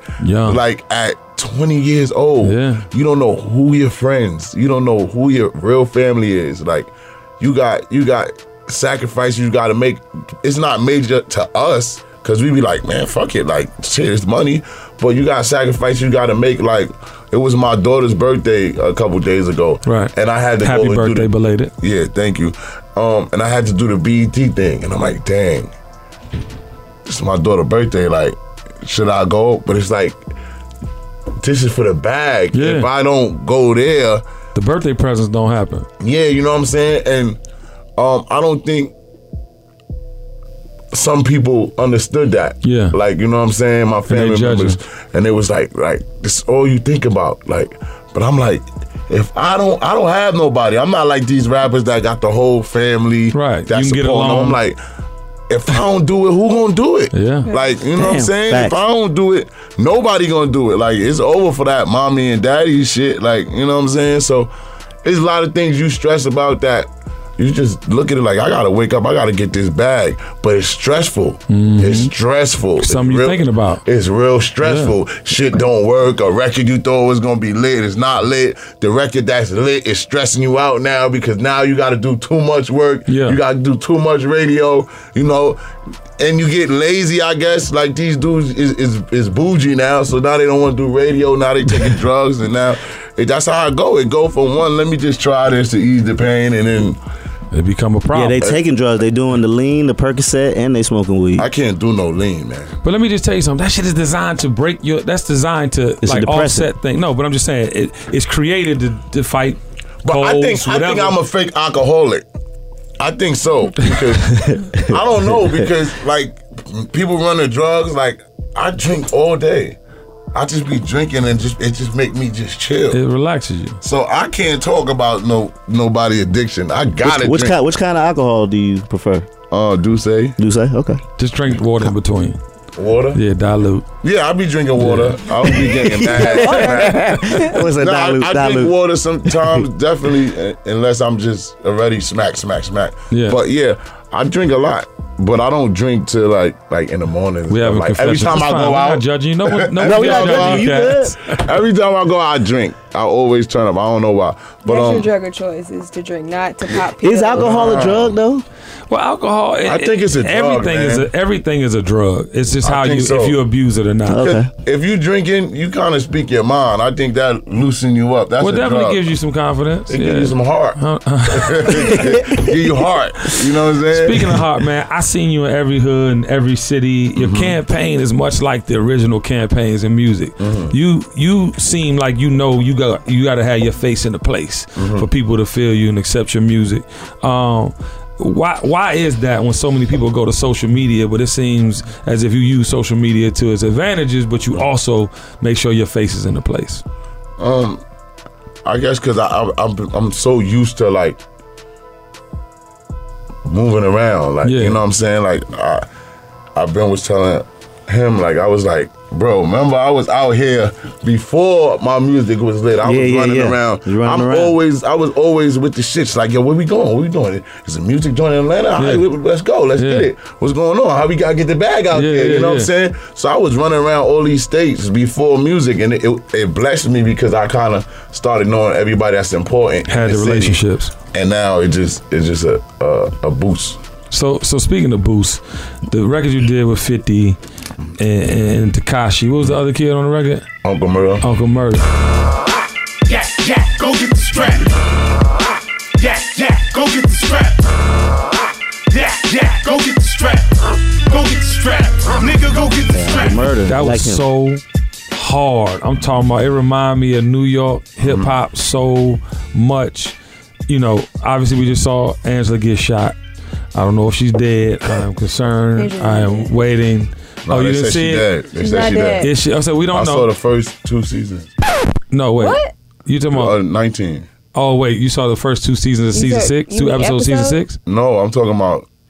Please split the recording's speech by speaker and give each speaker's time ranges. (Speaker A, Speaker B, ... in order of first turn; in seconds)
Speaker A: 0.2-0.6, 2.4-2.9, 19.9-21.7, 32.5-32.9, 34.5-35.9, 42.6-43.0, 44.1-44.8, 53.3-54.6, 57.1-57.5, 71.5-72.1, 72.8-73.8, 74.6-74.9, 83.1-83.4, 97.5-98.4, 102.8-111.2, 122.9-123.8, 131.2-132.4, 133.1-133.9, 134.8-135.2, 143.1-143.4, 147.5-151.4, 158.9-164.3, 168.4-172.2, 173.9-196.8, 204.4-204.8, 218.8-219.1, 219.8-220.1, 221.9-222.7, 229.9-230.9, 234.1-237.4, 238.0-240.5, 241.2-241.8, 253.7-260.1, 260.7-263.2, 263.8-268.3, 269.2-270.3, 272.1-273.6, 274.5-277.8
Speaker B: 0.5-25.7, 27.1-30.2, 31.4-34.2, 36.0-37.4, 38.0-38.9, 40.9-54.8, 55.5-64.5, 65.0-85.6, 86.2-97.0, 101.4-102.8, 110.0-112.2, 113.0-119.8, 120.3-123.0, 123.8-127.6, 129.5-130.4, 132.8-133.2, 134.0-150.7, 151.3-155.1, 157.3-158.2, 159.7-161.1, 162.6-163.4, 164.2-169.0, 169.9-174.5, 177.2-177.6, 180.4-180.8, 184.8-185.1, 197.4-197.8, 198.7-201.2, 203.4-205.9, 206.6-233.8, 240.6-241.2, 258.0-258.3, 267.5-269.3, 269.9-271.5, 273.3-274.3, 277.9-278.9
Speaker C: 57.9-58.8, 98.1-101.5, 106.0-106.7, 114.3-115.7, 127.0-129.3, 130.4-131.0, 135.5-139.7, 149.8-151.2, 157.0-158.4, 164.1-164.5, 172.0-172.3, 212.8-214.6, 252.9-254.2
Speaker D: 136.2-137.5, 154.7-157.8, 265.8-266.5, 268.6-269.3, 272.4-272.7, 276.1-277.6
Speaker E: 243.1-244.7, 246.0-247.7, 248.9-253.4